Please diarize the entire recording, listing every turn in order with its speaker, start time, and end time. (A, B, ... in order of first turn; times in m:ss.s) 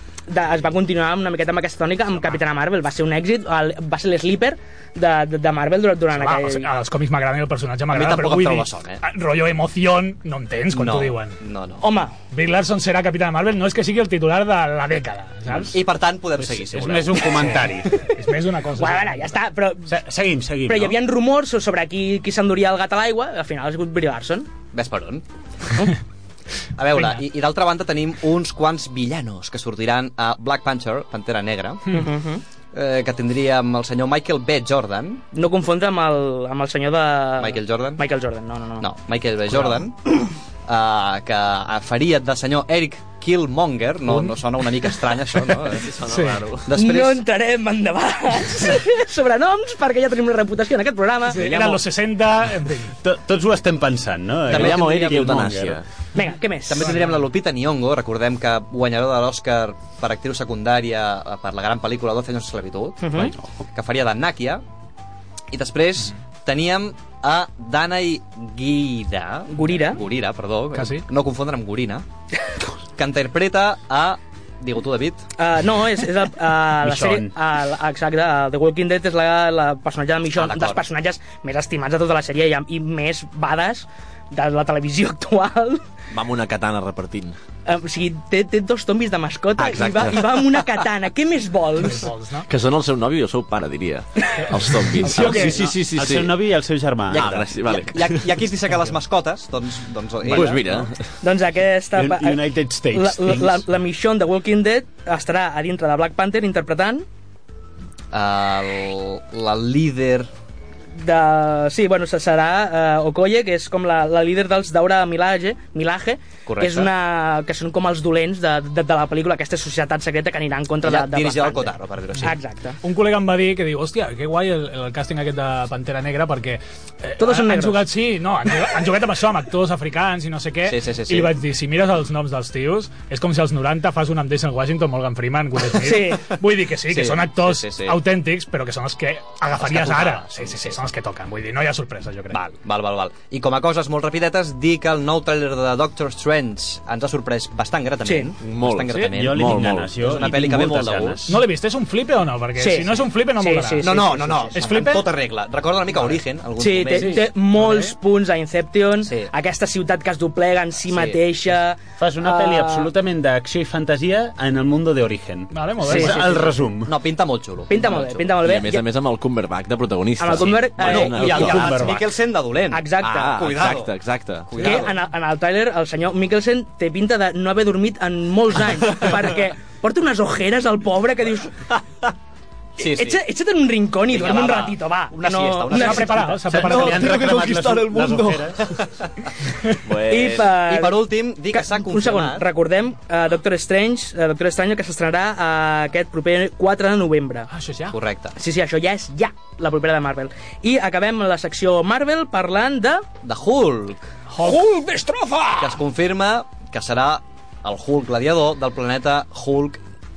0:00.3-0:06.7 A
0:06.1-0:11.4 B
0:07.9-0:09.0 C
0:10.7-0:11.8 C
0:11.8-0:12.1 A
0:12.3-0:15.8 B
0:15.5-0:17.6 C
0:16.4-0:18.0 D
0:18.1-0:19.3 B
0:18.8-0:19.9 A
0:19.8-0:21.0 D
0:20.6-0:24.5 A
0:24.7-0:25.2 C
0:26.8-0:32.1 C
0:26.9-0:27.2 B
0:31.9-0:32.4 A
0:32.7-0:35.2 C
0:35.3-0:38.9 A
0:37.4-0:38.0 C
0:38.8-0:46.0 C
0:39.5-0:39.8 B
0:44.1-0:44.3 B
0:45.7-0:46.7 E
0:46.1-0:46.4 B
0:46.6-0:47.2 C
0:46.7-0:51.4 A
0:51.3-0:52.9 B
0:51.4-0:51.8 E
0:53.0-0:55.8 D
0:54.5-0:55.6 C
0:54.5-0:55.8 E
0:56.1-0:57.0 A
0:56.7-1:04.6 C
0:56.8-0:57.1 B
1:03.0-1:03.3 A
1:05.5-1:12.0 C
1:09.5-1:10.0 A
1:10.7-1:11.0 B
1:13.0-1:15.2 C
1:15.4-1:25.8 A
1:16.8-1:17.3 D
1:20.3-1:20.8 C
1:26.1-1:27.3 E
1:27.6-1:32.1 A
1:29.6-1:30.6 E
1:31.8-1:32.5 B
1:32.5-1:36.4 E
1:34.4-1:35.6 B
1:35.2-1:35.5 A
1:35.2-1:37.5 D
1:37.1-1:38.2 E
1:37.1-1:40.9 C
1:40.3-1:41.0 E
1:40.3-1:40.6 D
1:41.2-1:47.0 A
1:41.9-1:43.6 D
1:48.1-1:50.3 C
1:50.9-2:02.8 A
1:56.4-1:56.9 C
2:00.8-2:02.4 C
2:02.1-2:22.4 B
2:07.2-2:07.8 A
2:10.6-2:11.3 C
2:15.8-2:16.2 A
2:16.9-2:18.0 C
2:19.6-2:20.8 C
2:22.3-2:31.3 C
2:28.0-2:28.3 A
2:28.4-2:30.6 E
2:29.1-2:31.4 D
2:31.3-2:34.0 B
2:32.6-2:34.6 A
2:33.8-2:37.3 C
2:34.5-2:35.1 B
2:36.6-2:42.9 A
2:36.9-2:38.0 B
2:39.0-2:39.3 C
2:40.9-2:41.2 C
2:42.0-2:47.0 D
2:45.5-2:46.6 B
2:45.8-2:46.2 A
2:46.8-2:48.3 C
2:47.7-2:48.8 A
2:48.3-2:51.9 E
2:50.2-2:51.5 A
2:50.8-2:53.9 C
2:51.2-2:52.1 D
2:52.7-2:53.4 A
2:53.0-2:54.8 E
2:54.5-2:55.0 C
2:54.6-3:01.6 A
3:02.8-3:03.2 C
3:02.8-3:06.4 A
3:04.0-3:07.5 C
3:05.7-3:07.5 B
3:06.5-3:08.6 D
3:09.8-3:10.5 E
3:10.1-3:17.5 A
3:10.5-3:12.5 C
3:17.5-3:18.0 B
3:17.9-3:18.3 C
3:18.4-3:23.0 A
3:23.2-3:24.0 C
3:24.3-3:24.6 B
3:24.4-3:25.8 A
3:25.6-3:29.8 C